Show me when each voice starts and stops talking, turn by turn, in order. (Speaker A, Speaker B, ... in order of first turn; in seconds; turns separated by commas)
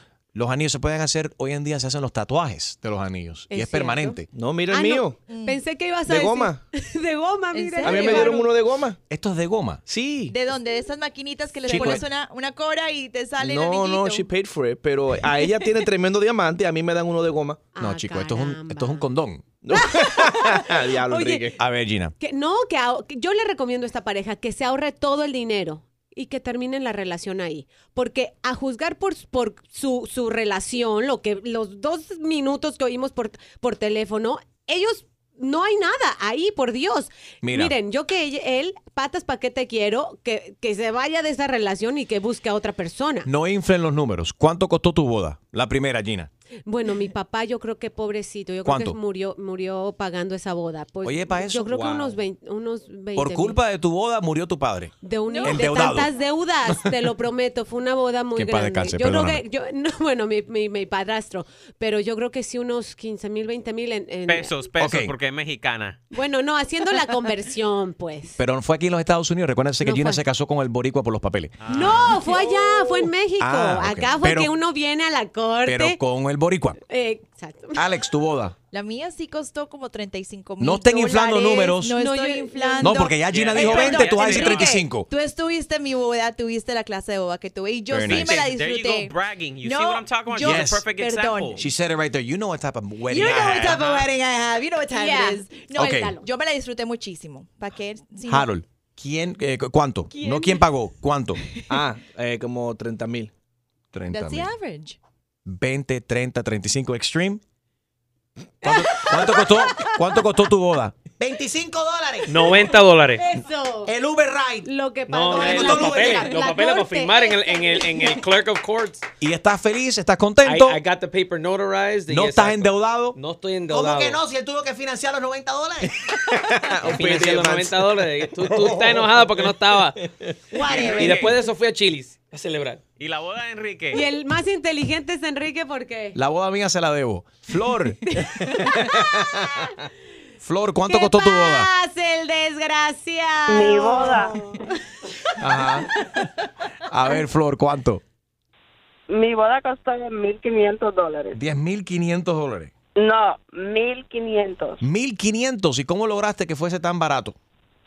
Speaker A: 0.3-4.3, Speaker B: 3.5-4.2, Speaker C: 4.3-5.2, Speaker B: 4.7-8.4, Speaker D: 5.3-5.6, Speaker C: 6.0-6.6, Speaker D: 7.5-8.4, Speaker C: 7.8-9.0, Speaker A: 9.1-9.8, Speaker C: 9.8-10.3, Speaker D: 10.3-14.3, Speaker A: 11.6-12.1, Speaker C: 11.7-12.0, Speaker C: 13.4-17.7, Speaker B: 17.8-19.0, Speaker A: 17.8-19.4, Speaker C: 19.6-21.6, Speaker B: 19.8-20.5, Speaker B: 21.1-21.4, Speaker A: 21.6-22.1, Speaker B: 22.2-43.3, Speaker A: 37.4-37.7, Speaker A: 43.2-46.3, Speaker B: 46.7-53.6, Speaker A: 48.6-49.0, Speaker A: 51.0-52.2, Speaker A: 53.1-56.1, Speaker B: 55.0-64.5, Speaker D: 55.3-55.9, Speaker A: 58.3-59.4, Speaker E: 64.3-66.0, Speaker A: 64.8-65.1, Speaker B: 66.1-68.4, Speaker A: 68.4-71.6, Speaker B: 69.8-70.2, Speaker E: 71.6-72.3, Speaker B: 71.7-76.0, Speaker A: 73.4-74.5, Speaker A: 75.6-76.8, Speaker B: 76.9-77.8, Speaker A: 77.7-78.5, Speaker D: 78.7-91.6, Speaker A: 80.6-82.0, Speaker B: 81.9-83.0, Speaker A: 82.8-85.1, Speaker E: 83.3-84.8, Speaker A: 87.9-88.4, Speaker E: 88.1-91.6, Speaker A: 90.4-90.8, Speaker A: 91.5-93.8, Speaker B: 93.2-94.0, Speaker F: 93.3-94.0, Speaker D: 93.4-94.1, Speaker D: 94.8-98.5, Speaker B: 94.9-96.2, Speaker A: 95.7-96.2, Speaker A: 98.3-101.4, Speaker B: 100.1-100.6, Speaker C: 101.7-103.3, Speaker A: 103.9-104.5, Speaker D: 104.1-105.0, Speaker A: 105.5-107.4, Speaker A: 108.6-110.9, Speaker F: 111.2-112.6, Speaker G: 112.2-113.2, Speaker B: 113.2-113.9, Speaker F: 113.8-114.7, Speaker B: 114.6-118.2, Speaker G: 115.1-119.0, Speaker F: 115.3-116.2, Speaker A: 119.2-120.8, Speaker G: 120.4-124.2, Speaker A: 122.1-123.2, Speaker F: 123.7-126.0, Speaker C: 126.5-127.9, Speaker G: 126.8-130.0, Speaker C: 128.7-129.2, Speaker B: 130.5-131.3, Speaker E: 130.7-131.3, Speaker G: 130.7-132.8, Speaker E: 133.0-134.0, Speaker B: 133.9-136.2, Speaker A: 136.1-138.0, Speaker A: 140.4-141.7, Speaker B: 140.9-144.6, Speaker H: 143.5-144.3, Speaker A: 145.4-145.9, Speaker A: 146.9-148.0, Speaker H: 149.1-151.4, Speaker A: 151.3-152.7, Speaker H: 152.9-154.8, Speaker A: 154.8-157.3